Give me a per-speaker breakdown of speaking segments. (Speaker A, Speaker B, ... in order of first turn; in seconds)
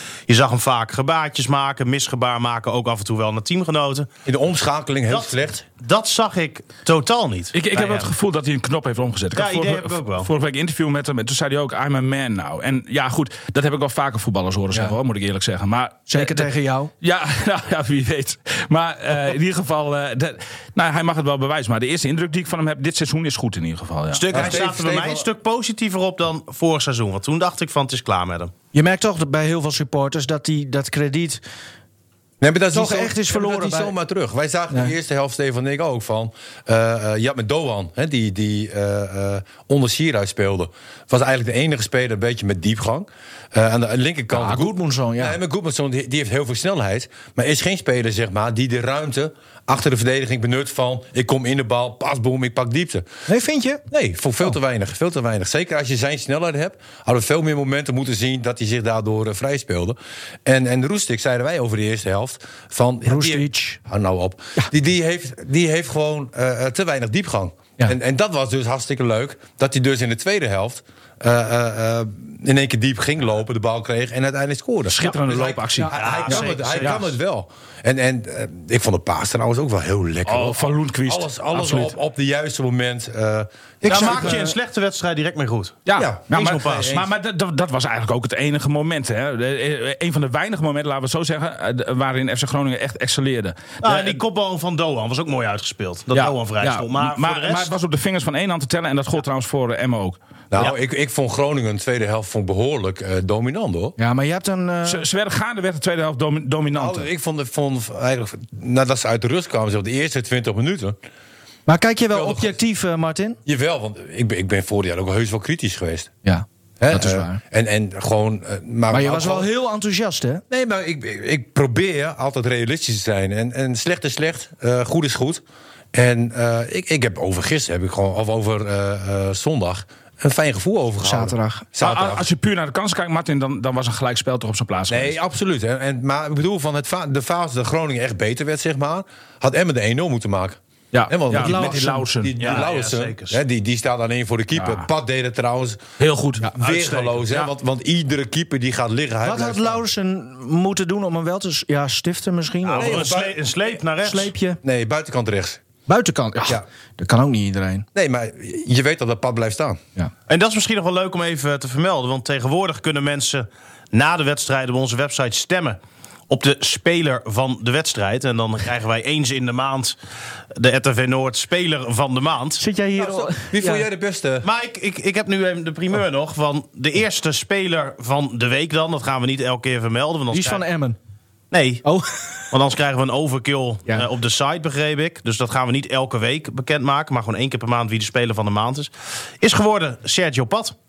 Speaker A: 0.3-4.1, 5.1-8.1, 9.3-10.3, 24.1-28.5, 75.9-77.0, 83.8-85.8, 86.3-86.9, 93.8-97.7, 142.4-143.4, 152.6-154.3, 160.3-165.8, 166.3-169.9, 170.5-172.6, 174.4-180.6, 181.5-181.8, 182.5-190.7
Speaker B: 4.2-5.7, 24.3-25.3, 32.4-53.1, 53.9-84.4, 86.0-87.1, 100.5-103.9, 106.7-111.0, 112.1-112.6, 113.5-116.1, 116.8-119.5, 120.5-125.4, 125.9-132.3, 134.9-145.8, 146.5-149.8, 152.7-153.4, 154.6-155.6, 157.9-159.8, 173.0-174.5
Speaker C: 7.5-24.6, 74.9-77.0, 80.2-81.9, 85.8-94.2, 96.1-100.7, 104.8-107.1, 131.8-135.2, 140.9-142.7, 144.5-144.8, 146.0-147.5
Speaker D: 16.1-16.9, 28.7-31.4, 32.7-33.9, 44.3-45.4, 53.3-53.8, 63.0-63.8, 75.8-76.5, 83.8-84.5, 104.0-105.0, 111.7-113.4, 116.2-117.4, 118.9-120.4, 131.0-131.7, 141.3-142.0, 149.2-153.1, 154.0-154.6, 155.9-157.8, 172.6-173.8, 180.3-181.0, 181.8-182.5